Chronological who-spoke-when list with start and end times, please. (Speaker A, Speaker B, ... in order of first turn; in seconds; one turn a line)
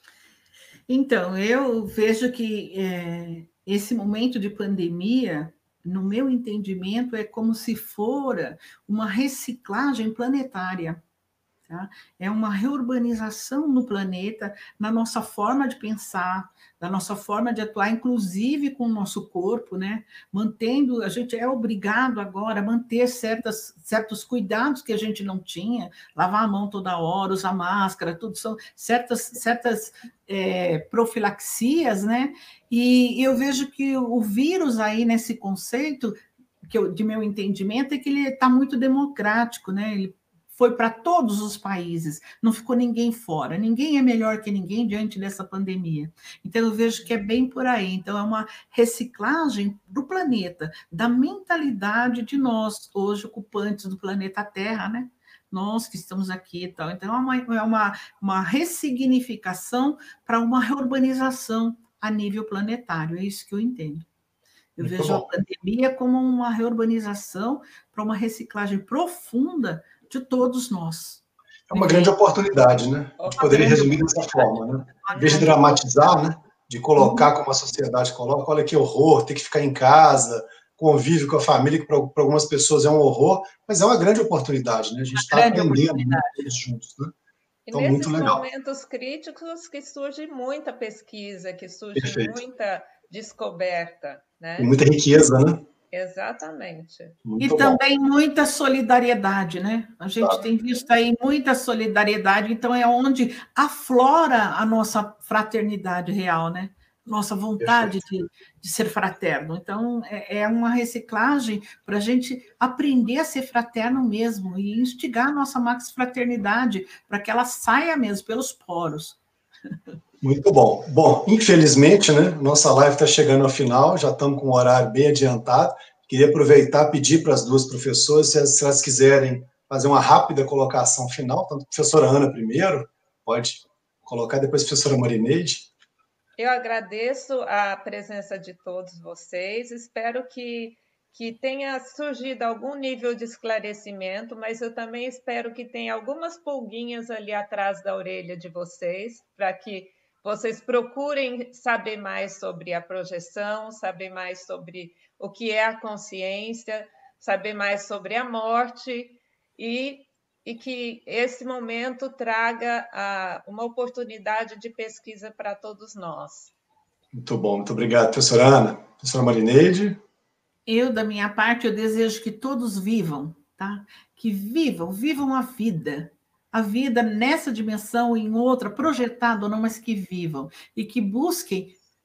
Speaker A: 0.9-11.0
Speaker A: 11.7-64.0
Speaker A: 64.8-72.1
Speaker B: 64.8-65.3
Speaker B: 71.7-87.1
Speaker C: 73.2-73.8
Speaker A: 73.4-74.5
Speaker A: 75.0-75.6
Speaker C: 75.1-75.8
Speaker A: 77.0-77.3
Speaker A: 85.1-86.5
Speaker C: 87.7-94.8
Speaker B: 87.7-88.5
Speaker B: 92.0-92.4
Speaker B: 94.6-95.6
Speaker C: 95.9-97.2
Speaker B: 97.2-97.8
Speaker A: 97.4-119.2
Speaker B: 107.6-108.0
Speaker B: 120.2-135.7
Speaker C: 136.4-166.5
Speaker B: 167.1-170.0
Speaker A: 170.7-181.8